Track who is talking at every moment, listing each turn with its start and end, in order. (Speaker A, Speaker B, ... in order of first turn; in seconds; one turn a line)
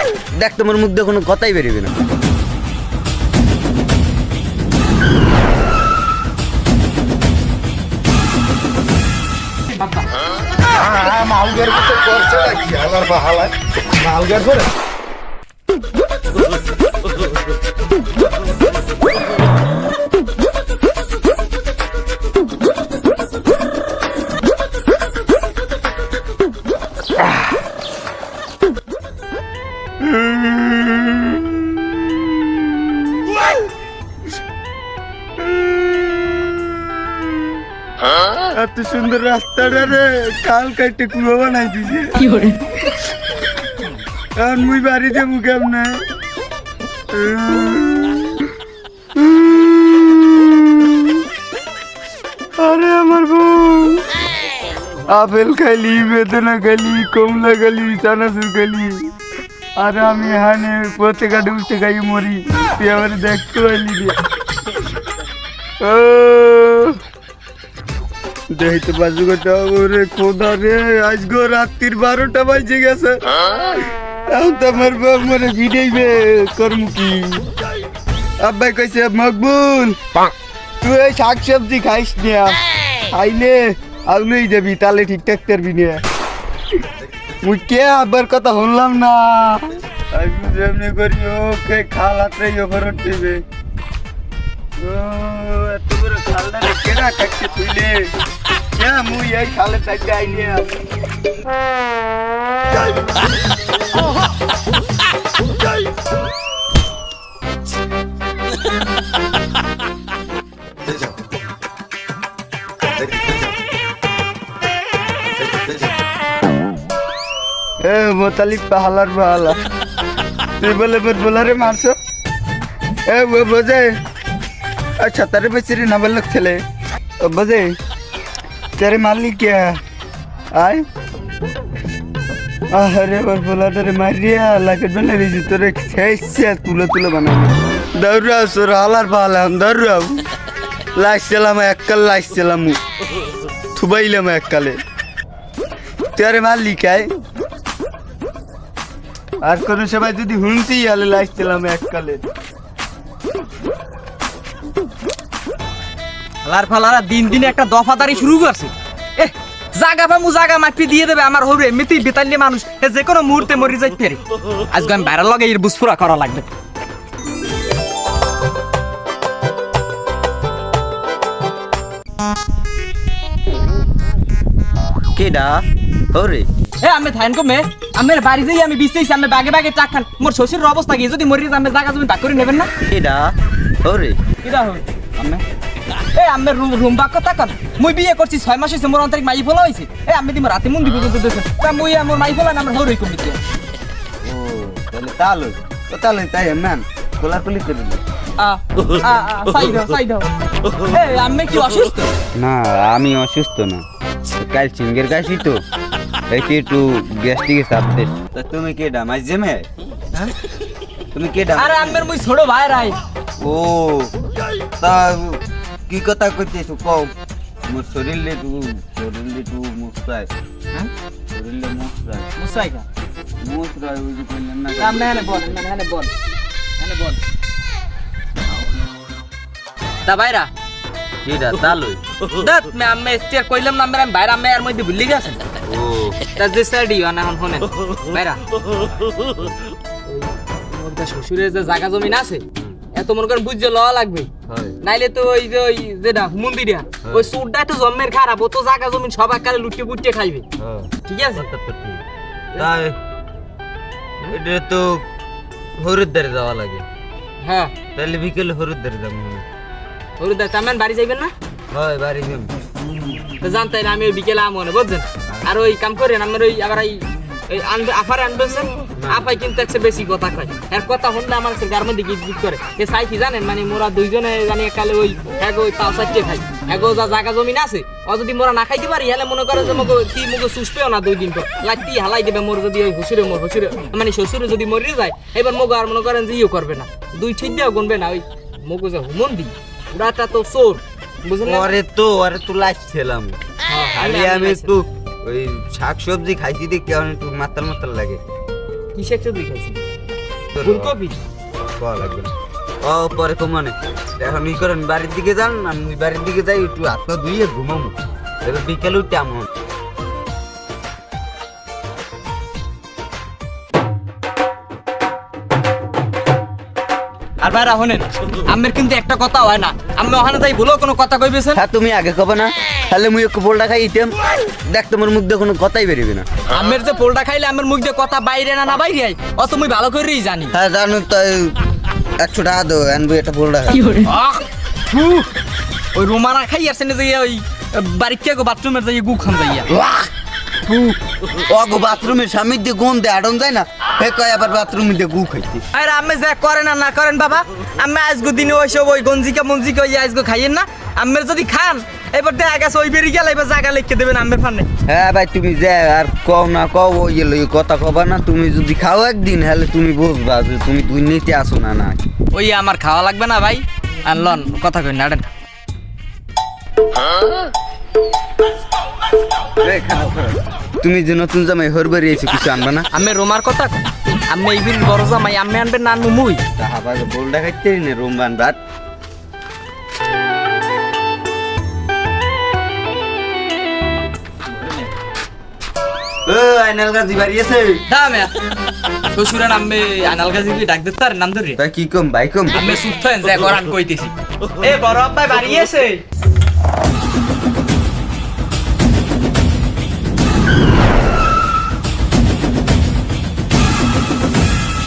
Speaker A: 0.4-1.9
Speaker B: 9.7-10.1
Speaker C: 10.7-14.7
Speaker A: 30.0-33.5
Speaker A: 35.4-37.5
Speaker A: 38.5-42.3
Speaker A: 44.4-46.0
Speaker A: 47.1-48.4
Speaker A: 49.2-51.2
Speaker A: 52.6-54.0
Speaker A: 55.1-59.1
Speaker A: 59.8-64.2
Speaker A: 65.8-67.0
Speaker A: 68.5-73.2
Speaker A: 74.3-77.5
Speaker A: 78.4-80.0
Speaker A: 80.8-82.6
Speaker A: 83.1-86.0
Speaker A: 87.4-93.4
Speaker A: 94.8-98.1
Speaker A: 98.8-100.7
Speaker C: 110.8-111.2
Speaker C: 112.9-113.6
Speaker C: 115.3-116.0
Speaker A: 117.8-119.6
Speaker A: 120.6-122.0
Speaker A: 123.1-124.0
Speaker A: 125.0-126.6
Speaker A: 127.2-127.7
Speaker A: 128.8-129.8
Speaker A: 130.6-130.8
Speaker A: 132.7-140.2
Speaker A: 141.0-142.8
Speaker A: 143.8-144.8
Speaker A: 146.2-147.1
Speaker A: 149.4-152.2
Speaker B: 156.4-166.5
Speaker A: 175.2-176.5
Speaker B: 176.8-182.7
Speaker A: 182.9-184.2
Speaker B: 184.4-184.9
Speaker A: 185.2-185.4
Speaker B: 186.1-193.4
Speaker A: 194.2-198.0
Speaker B: 198.4-200.3
Speaker B: 200.8-202.1
Speaker A: 202.3-203.8
Speaker A: 204.4-205.6
Speaker A: 206.3-209.7
Speaker A: 211.1-212.1
Speaker B: 211.6-213.0
Speaker A: 213.4-214.1
Speaker A: 214.8-217.1
Speaker A: 217.7-220.3
Speaker A: 221.3-222.3
Speaker B: 222.4-222.9
Speaker A: 223.4-225.7
Speaker B: 224.8-226.1
Speaker B: 226.8-227.2
Speaker B: 230.1-230.5
Speaker A: 231.2-232.0
Speaker B: 232.3-235.4
Speaker A: 235.6-236.2
Speaker B: 236.3-238.4
Speaker B: 240.1-242.4
Speaker B: 242.9-244.3
Speaker A: 244.5-244.8
Speaker B: 244.8-250.4
Speaker A: 247.0-247.3
Speaker A: 250.6-252.0
Speaker B: 251.1-251.4
Speaker A: 252.6-253.0
Speaker A: 254.3-255.0
Speaker A: 255.8-256.9
Speaker B: 257.4-257.7
Speaker A: 257.9-259.4
Speaker B: 260.2-261.3
Speaker A: 261.7-262.6
Speaker B: 263.4-291.8
Speaker A: 265.3-265.6
Speaker A: 269.0-269.4
Speaker A: 291.4-293.4
Speaker B: 293.7-294.7
Speaker A: 293.9-298.2
Speaker B: 298.9-299.8
Speaker A: 300.5-301.0
Speaker B: 300.6-301.2
Speaker A: 301.7-309.5
Speaker B: 317.4-321.6
Speaker A: 321.6-326.3
Speaker B: 326.5-330.5
Speaker A: 330.5-331.6
Speaker A: 332.2-333.9
Speaker B: 333.7-335.3
Speaker B: 335.9-339.7
Speaker A: 339.8-340.1
Speaker B: 340.7-341.0
Speaker A: 341.5-345.6
Speaker B: 345.7-354.7
Speaker A: 354.9-362.0
Speaker B: 362.3-365.3
Speaker A: 369.6-372.9
Speaker B: 372.9-376.4
Speaker A: 376.6-378.6
Speaker B: 384.5-384.9
Speaker A: 386.3-387.8
Speaker B: 387.9-388.3
Speaker B: 389.1-391.6
Speaker A: 391.6-392.7
Speaker B: 392.5-396.0